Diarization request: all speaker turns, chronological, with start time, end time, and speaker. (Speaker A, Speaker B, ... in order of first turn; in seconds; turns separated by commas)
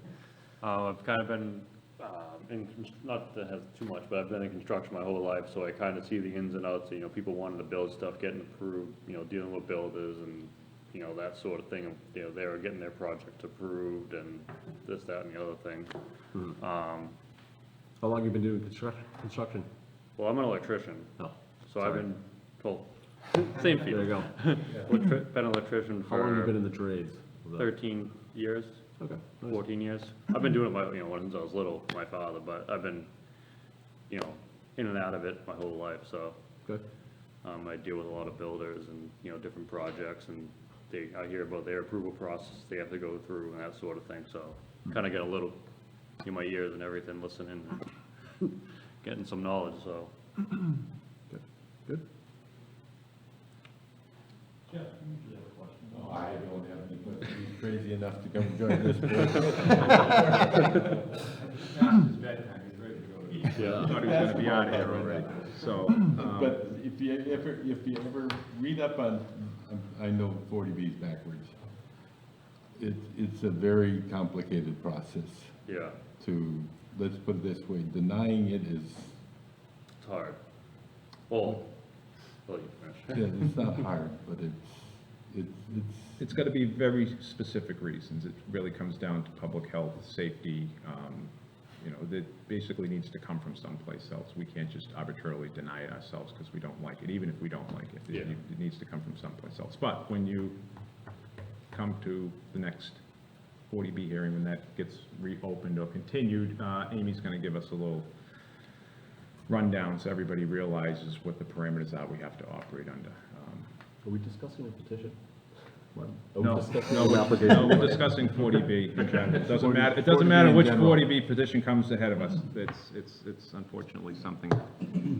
Speaker A: 0.6-15.9, Speaker A: 16.6-17.1, Speaker B: 18.0-19.7, Speaker A: 20.2-21.1, Speaker B: 21.2-22.1, Speaker A: 21.7-26.6, Speaker B: 23.7-24.9, Speaker B: 26.0-27.7, Speaker A: 27.6-28.8, Speaker B: 29.0-29.6, Speaker A: 29.4-33.1, Speaker A: 34.1-36.4, Speaker A: 37.4-45.6, Speaker A: 46.2-50.1, Speaker B: 51.3-52.0, Speaker C: 54.7-56.5, Speaker D: 55.9-60.7, Speaker C: 60.4-66.6, Speaker A: 63.5-64.0, Speaker D: 63.9-71.7, Speaker D: 72.8-75.6, Speaker A: 75.7-76.0, Speaker D: 76.2-79.2, Speaker A: 80.0-80.4, Speaker A: 81.3-81.7, Speaker A: 82.5-83.4, Speaker D: 83.1-86.2, Speaker C: 86.2-100.6, Speaker C: 101.7-103.0, Speaker C: 103.7-108.1, Speaker C: 109.5-113.7, Speaker B: 114.0-115.2, Speaker C: 116.0-124.8, Speaker B: 116.3-118.7, Speaker D: 119.2-121.1